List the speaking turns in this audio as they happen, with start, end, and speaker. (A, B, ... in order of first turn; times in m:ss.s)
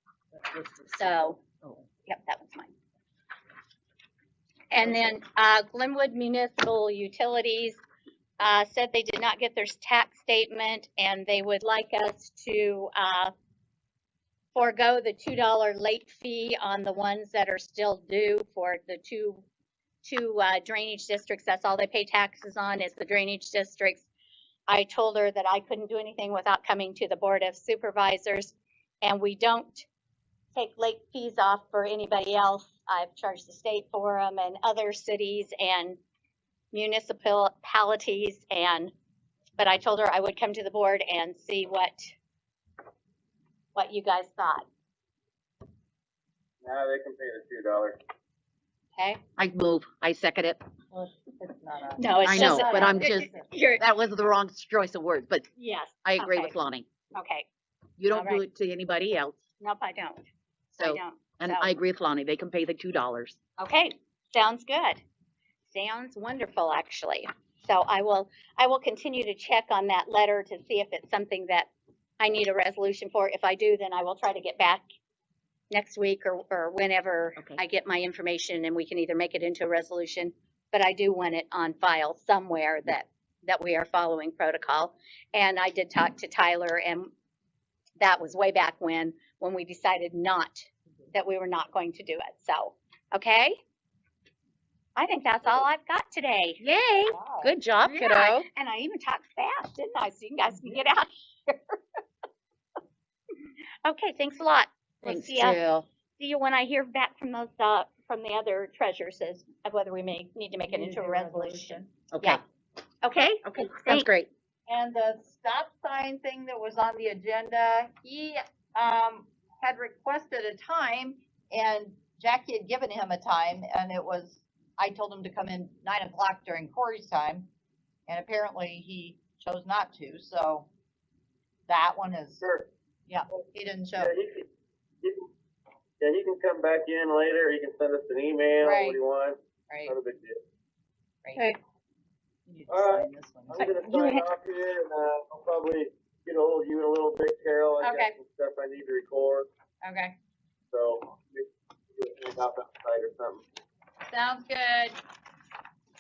0:00.4-0:01.8 A
0:00.9-0:01.4 B
0:02.1-0:02.7 B
0:04.7-0:07.8 B
0:04.8-0:05.1 A
0:08.4-0:13.3 B
0:14.5-0:19.4 B
0:20.0-0:24.1 B
0:24.7-0:29.9 B
0:30.5-0:36.0 B
0:36.7-0:38.9 B
0:39.6-0:42.1 B
0:43.8-0:44.6 B
0:46.6-0:48.0 C
0:49.0-0:49.2 B
0:49.4-0:50.6 A
0:50.9-0:53.5 D
0:52.0-0:53.8 B
0:52.2-0:55.5 A
0:55.6-0:56.5 B
0:56.0-0:56.9 A
0:57.1-0:57.5 B
0:58.0-0:59.4 A
0:58.1-0:58.4 B
0:59.6-1:00.2 B
1:00.7-1:03.4 A
1:00.8-1:01.7 B
1:03.6-1:05.0 B
1:05.7-1:14.8 B
1:15.7-1:27.1 B
1:28.0-1:33.6 B
1:35.0-1:36.6 B
1:36.6-1:38.5 A
1:37.1-1:37.5 D
1:37.9-1:41.8 B
1:43.8-1:45.6 B
1:45.0-1:45.9 A
1:46.2-1:52.4 B
1:50.7-1:51.9 D
1:52.1-1:52.4 A
1:53.0-1:54.1 B
1:53.4-1:54.3 A
1:54.7-2:07.5 D
2:08.1-2:10.7 D
2:11.7-2:12.5 D
2:12.4-2:12.7 C
2:13.1-2:14.2 D
2:14.0-2:14.4 C
2:16.0-2:20.4 C
2:18.6-2:19.0 D
2:19.7-2:20.0 D
2:21.2-2:21.5 D
2:22.5-2:24.0 D
2:22.7-2:29.5 C
2:29.8-2:30.2 D
2:30.7-2:33.4 C
2:34.1-2:34.9 D